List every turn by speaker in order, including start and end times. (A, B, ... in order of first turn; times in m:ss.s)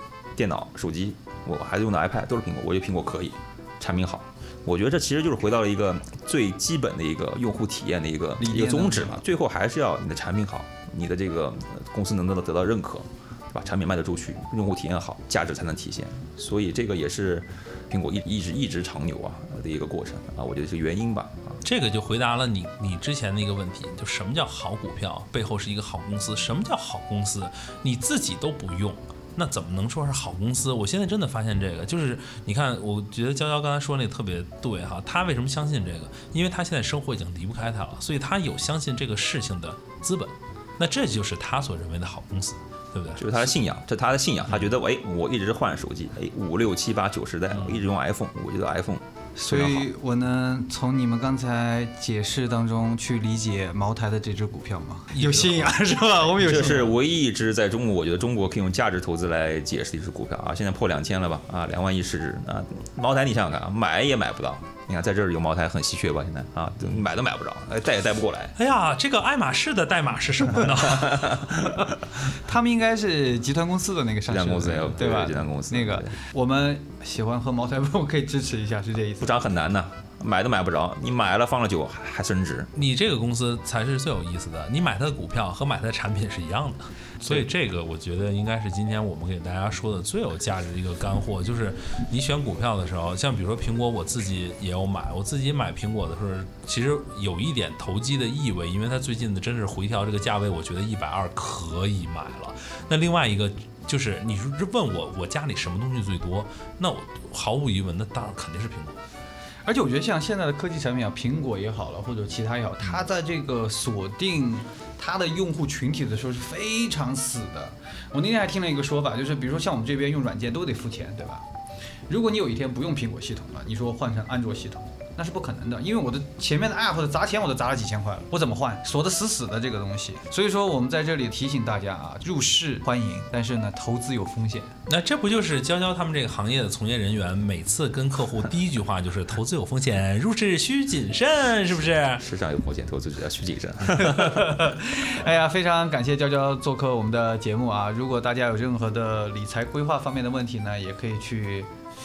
0:00.4-0:21.6 A
0:08.4-0:09.2 B
0:21.6-0:43.5 C
0:43.2-0:49.9 A
0:49.4-0:56.9 B
0:55.1-0:56.2 C
0:56.4-1:08.6 A
1:08.6-1:11.6 C
1:11.0-1:11.4 A
1:12.3-1:19.4 B
1:14.3-1:16.1 A
1:19.2-1:22.7 A
1:22.8-1:49.0 C
1:27.2-1:27.5 B
1:49.6-2:01.4 B
2:02.1-2:14.7 B
2:14.9-2:22.2 C
2:22.2-2:24.6 A
2:24.0-2:31.7 B